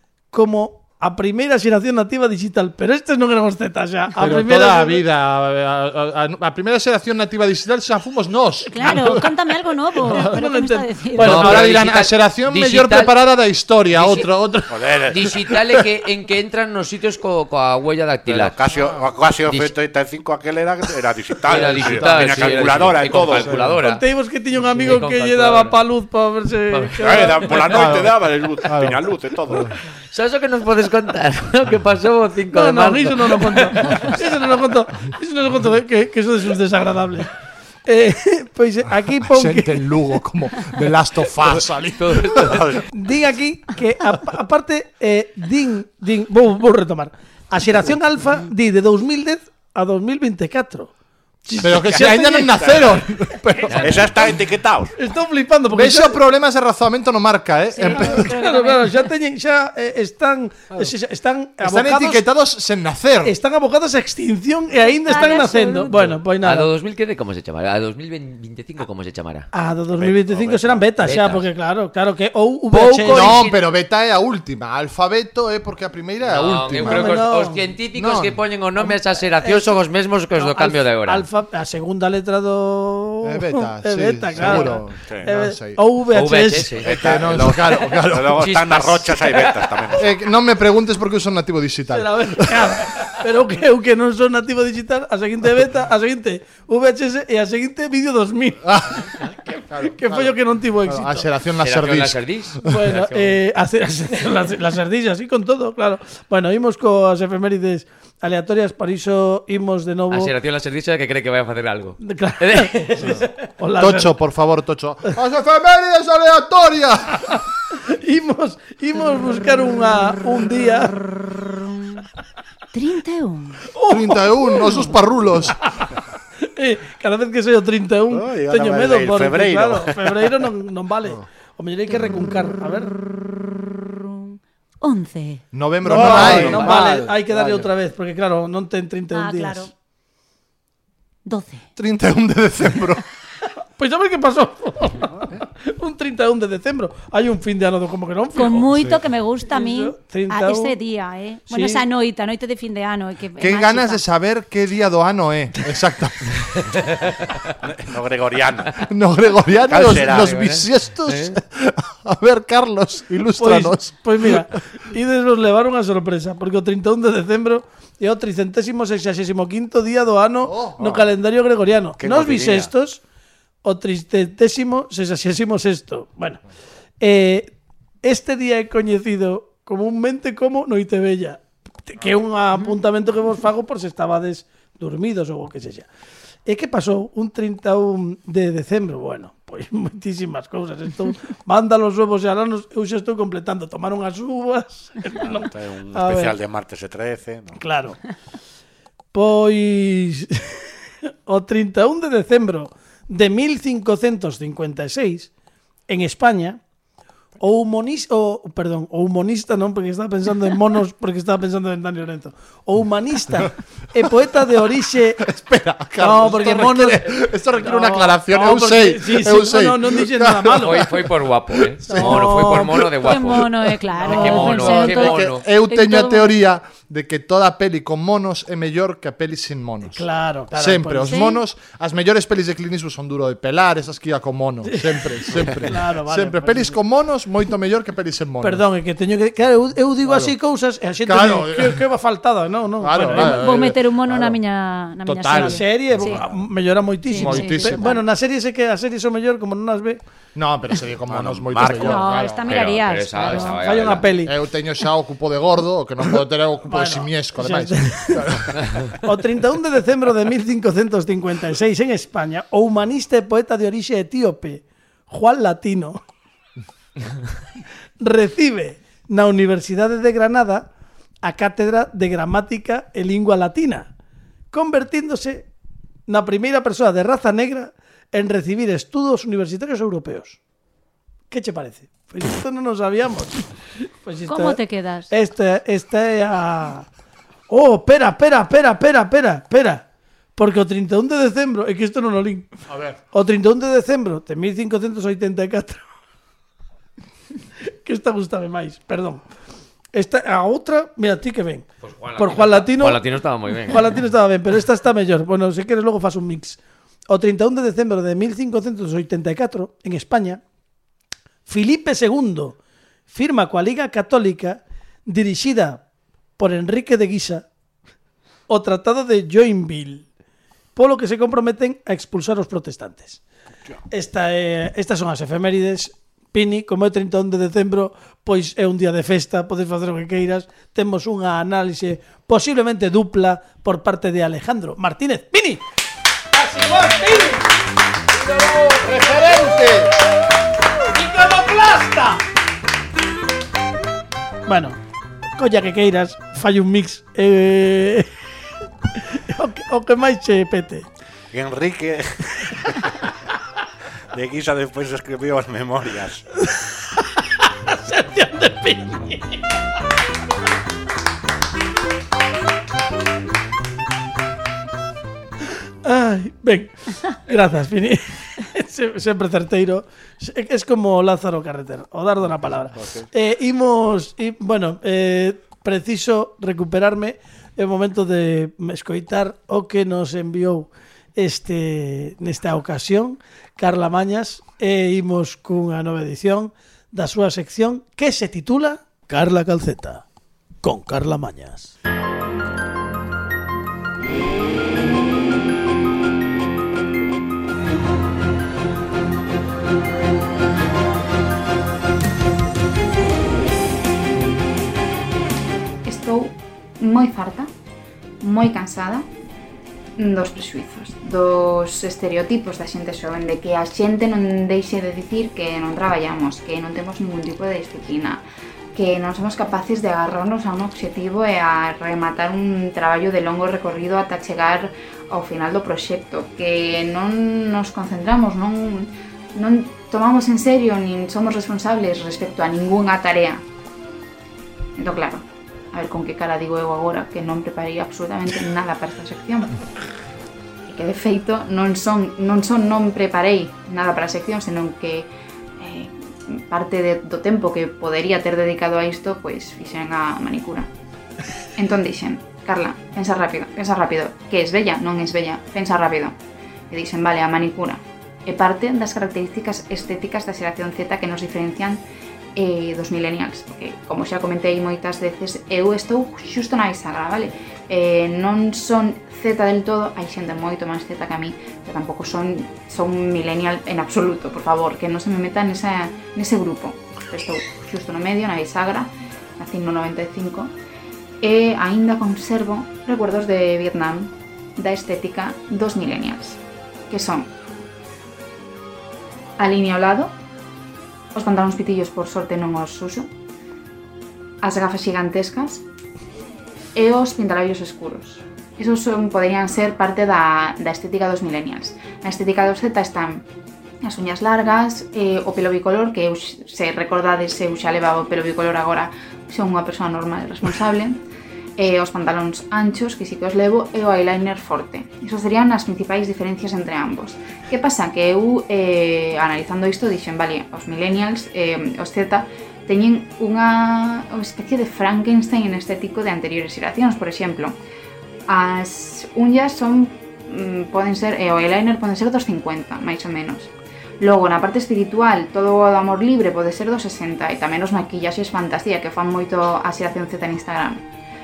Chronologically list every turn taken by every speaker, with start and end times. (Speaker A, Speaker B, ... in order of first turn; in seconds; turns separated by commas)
Speaker A: 0.3-5.0, Speaker B: 4.2-9.5, Speaker C: 8.7-11.6, Speaker A: 10.1-11.5, Speaker D: 11.2-13.1, Speaker B: 11.2-15.8, Speaker D: 13.9-14.3, Speaker E: 14.7-15.2, Speaker D: 15.1-18.6, Speaker E: 18.2-23.6, Speaker D: 19.5-19.7, Speaker D: 21.4-24.0, Speaker B: 21.5-23.8, Speaker A: 23.8-27.7, Speaker D: 24.6-25.7, Speaker D: 26.7-27.5, Speaker E: 27.0-29.7, Speaker B: 27.7-29.7, Speaker D: 30.1-34.1, Speaker A: 32.5-37.3, Speaker A: 37.9-39.8, Speaker B: 39.0-42.7, Speaker D: 42.0-42.6, Speaker E: 42.4-42.8, Speaker A: 42.9-50.9, Speaker A: 51.5-52.8, Speaker B: 51.6-54.3, Speaker E: 52.6-52.9, Speaker D: 53.7-54.1, Speaker E: 53.8-54.9, Speaker A: 55.0-56.2, Speaker B: 55.7-58.3, Speaker C: 57.7-59.1, Speaker A: 57.8-62.2, Speaker B: 61.6-63.3, Speaker A: 63.2-66.7, Speaker C: 64.8-66.1, Speaker D: 65.9-69.5, Speaker A: 69.5-73.4, Speaker E: 70.0-71.0, Speaker D: 71.0-71.5, Speaker D: 72.7-73.6, Speaker B: 73.1-77.3, Speaker D: 76.2-81.2, Speaker A: 76.8-77.6, Speaker B: 77.9-78.4, Speaker A: 78.8-79.8, Speaker A: 80.3-86.7, Speaker B: 83.2-85.8, Speaker D: 86.1-87.0, Speaker E: 86.8-90.1, Speaker B: 86.8-88.7, Speaker D: 88.3-89.8, Speaker B: 90.0-93.0, Speaker A: 91.9-98.6, Speaker B: 98.6-102.2, Speaker A: 99.2-101.3, Speaker D: 101.6-103.4, Speaker A: 102.6-110.3, Speaker D: 110.1-113.1, Speaker A: 112.0-114.1, Speaker B: 113.8-117.4, Speaker A: 117.8-121.0, Speaker C: 122.7-123.6, Speaker A: 123.7-124.9, Speaker B: 123.9-125.7, Speaker A: 126.4-133.0, Speaker E: 128.1-130.5, Speaker C: 133.1-135.4, Speaker B: 135.5-136.7, Speaker A: 135.8-139.7, Speaker E: 135.9-137.7, Speaker D: 136.2-136.7, Speaker C: 139.1-139.7, Speaker C: 141.2-141.6, Speaker B: 141.8-143.0, Speaker A: 143.8-148.7, Speaker C: 148.3-154.0, Speaker B: 148.7-149.0, Speaker A: 149.5-150.8, Speaker A: 151.5-151.8, Speaker B: 153.4-156.7, Speaker E: 157.6-158.9, Speaker B: 158.9-164.5, Speaker E: 159.7-160.6, Speaker D: 161.1-161.3, Speaker A: 163.4-173.0, Speaker B: 170.4-171.0, Speaker E: 172.0-172.7, Speaker A: 173.6-176.4, Speaker A: 177.0-177.5, Speaker A: 178.0-185.9, Speaker A: 186.4-196.3, Speaker E: 195.2-197.6, Speaker A: 197.6-198.0, Speaker A: 199.1-200.7, Speaker A: 201.3-205.3, Speaker A: 205.9-206.6, Speaker A: 207.4-215.2, Speaker B: 214.0-223.5, Speaker A: 216.0-220.9, Speaker D: 220.6-223.5, Speaker A: 221.8-222.9, Speaker C: 223.0-226.3, Speaker A: 224.0-224.6, Speaker D: 224.1-225.4, Speaker B: 224.1-238.6, Speaker A: 229.9-231.2, Speaker C: 231.1-231.4, Speaker A: 234.6-236.8, Speaker A: 238.4-243.4, Speaker B: 240.0-240.3, Speaker B: 241.0-241.8, Speaker B: 242.8-244.4, Speaker C: 243.1-246.2, Speaker B: 245.0-246.1, Speaker A: 245.3-250.0, Speaker C: 247.0-248.0, Speaker B: 247.2-248.0, Speaker B: 250.3-252.6, Speaker E: 251.1-252.1, Speaker C: 251.8-253.6, Speaker D: 252.4-254.1, Speaker A: 253.6-254.3, Speaker B: 254.2-258.8, Speaker A: 256.7-266.0, Speaker A: 268.0-270.7, Speaker A: 271.2-273.9, Speaker A: 274.5-275.5, Speaker A: 276.1-280.4, Speaker A: 281.3-286.9, Speaker C: 284.3-285.1, Speaker A: 287.5-289.8, Speaker A: 290.4-292.5, Speaker B: 292.7-292.9, Speaker A: 293.1-295.8, Speaker A: 297.7-299.2, Speaker A: 299.9-303.0, Speaker D: 301.8-304.0, Speaker A: 303.6-306.6, Speaker A: 307.1-310.4, Speaker A: 311.5-312.6, Speaker A: 313.1-315.8, Speaker A: 316.4-317.4, Speaker A: 318.5-320.1, Speaker A: 320.8-323.2, Speaker A: 323.9-335.6, Speaker A: 336.3-337.4, Speaker B: 338.2-339.9, Speaker A: 340.9-342.2, Speaker A: 344.4-344.8, Speaker A: 345.4-348.1, Speaker A: 348.9-350.9, Speaker E: 351.3-352.9, Speaker E: 354.1-356.2, Speaker A: 357.0-359.4, Speaker A: 365.8-390.0, Speaker E: 372.8-373.0, Speaker A: 390.6-391.7, Speaker F: 405.8-407.5, Speaker F: 408.2-409.1, Speaker F: 410.0-418.2, Speaker F: 418.7-433.4, Speaker F: 434.8-439.6, Speaker F: 440.7-450.7, Speaker F: 451.6-456.1, Speaker F: 456.7-461.8, Speaker F: 462.4-480.5, Speaker F: 481.2-487.3, Speaker F: 489.4-490.1, Speaker F: 491.1-493.1, Speaker F: 494.4-495.6, Speaker F: 496.7-503.2, Speaker F: 503.8-511.0, Speaker F: 511.6-527.5, Speaker F: 528.3-540.8